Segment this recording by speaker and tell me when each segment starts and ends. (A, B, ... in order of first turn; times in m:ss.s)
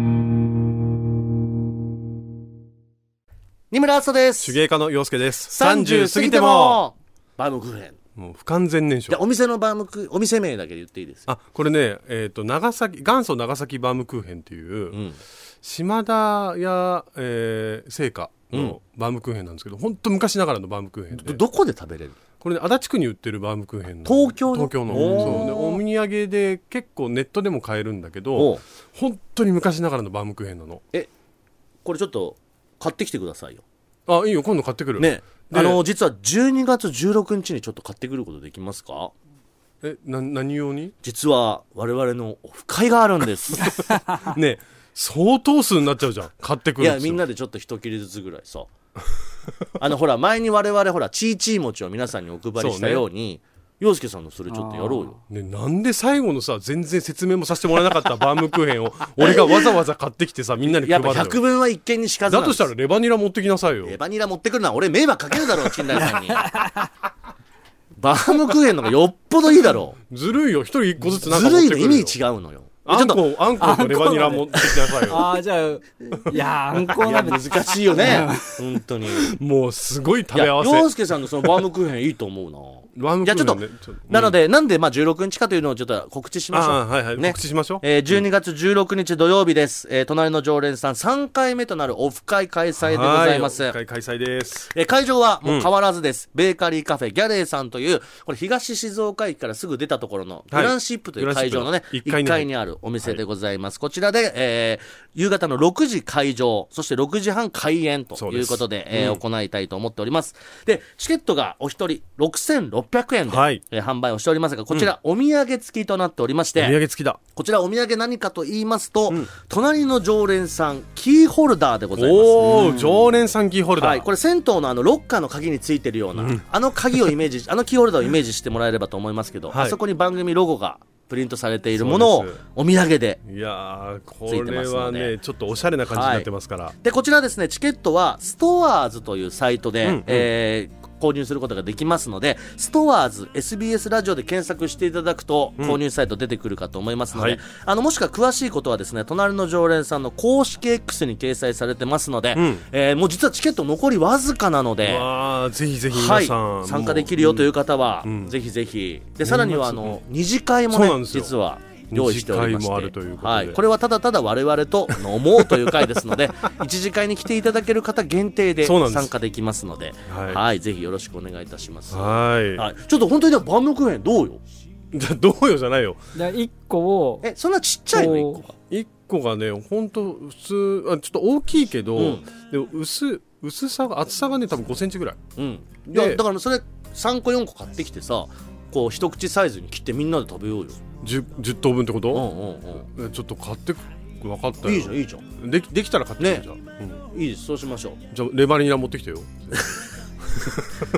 0:03.7-0:04.6 A
0:04.4-0:06.8 B
0:05.5-0:08.0 A
0:08.2-0:09.2 B
0:09.1-0:11.3 A
0:11.3-0:15.0 B
0:14.9-0:15.2 A
0:15.6-0:21.4 B
0:18.5-0:18.8 A
0:21.2-0:22.2 A
0:22.4-0:30.8 B
0:24.0-0:25.8 A
0:25.0-0:25.2 C
0:28.4-0:28.6 A
0:31.8-0:33.6 A
0:34.1-0:35.8 B
0:35.0-0:39.1 A
0:39.8-0:40.9 B
0:41.0-0:43.9 A
0:44.2-0:47.2 B
0:46.8-0:48.7 A
0:49.8-0:55.2 A
0:52.6-0:53.0 B
0:54.5-0:55.2 C
0:55.3-1:01.4 B
0:59.2-0:59.8 A
1:00.6-1:02.7 A
1:02.3-1:04.0 B
1:03.8-1:06.5 A
1:06.1-1:06.9 C
1:08.0-1:10.0 A
1:10.1-1:12.2 B
1:11.0-1:13.2 A
1:12.8-1:15.2 B
1:13.6-1:18.6 C
1:14.6-1:15.0 A
1:16.8-1:19.3 A
1:19.1-1:20.9 B
1:20.3-1:33.8 A
1:22.9-1:24.4 B
1:26.5-1:27.8 B
1:32.8-1:34.7 B
1:34.7-1:56.8 A
1:40.5-1:42.5 B
1:48.2-1:49.2 B
1:53.3-1:53.6 B
1:56.6-1:57.2 B
1:57.3-2:02.8 A
2:02.0-2:04.0 B
2:02.5-2:03.0 C
2:03.8-2:13.2 A
2:06.2-2:06.4 B
2:09.5-2:09.8 B
2:11.8-2:12.4 B
2:13.2-2:16.7 B
2:14.2-2:15.1 A
2:15.9-2:16.3 A
2:16.8-2:35.1 A
2:19.8-2:20.3 B
2:27.1-2:27.4 B
2:32.4-2:32.6 B
2:34.8-2:37.5 B
2:35.9-2:54.4 A
2:38.0-2:38.3 B
2:39.2-2:40.0 B
2:40.7-2:41.3 B
2:41.9-2:43.6 B
2:45.4-2:45.9 B
2:48.6-2:49.1 B
2:50.1-2:50.4 B
2:51.9-2:52.7 B
2:54.9-2:56.0 B
2:56.1-2:57.2 C
2:57.2-2:58.5 A
2:57.9-2:58.5 C
2:58.7-3:05.2 B
3:02.0-3:02.2 A
3:05.4-3:10.8 A
3:05.9-3:06.2 B
3:11.0-3:12.3 B
3:12.1-3:12.8 A
3:12.8-3:17.0 B
3:14.6-3:15.2 A
3:16.2-3:16.4 A
3:17.1-3:18.0 A
3:18.1-3:19.6 B
3:19.5-3:19.8 A
3:20.3-3:20.8 B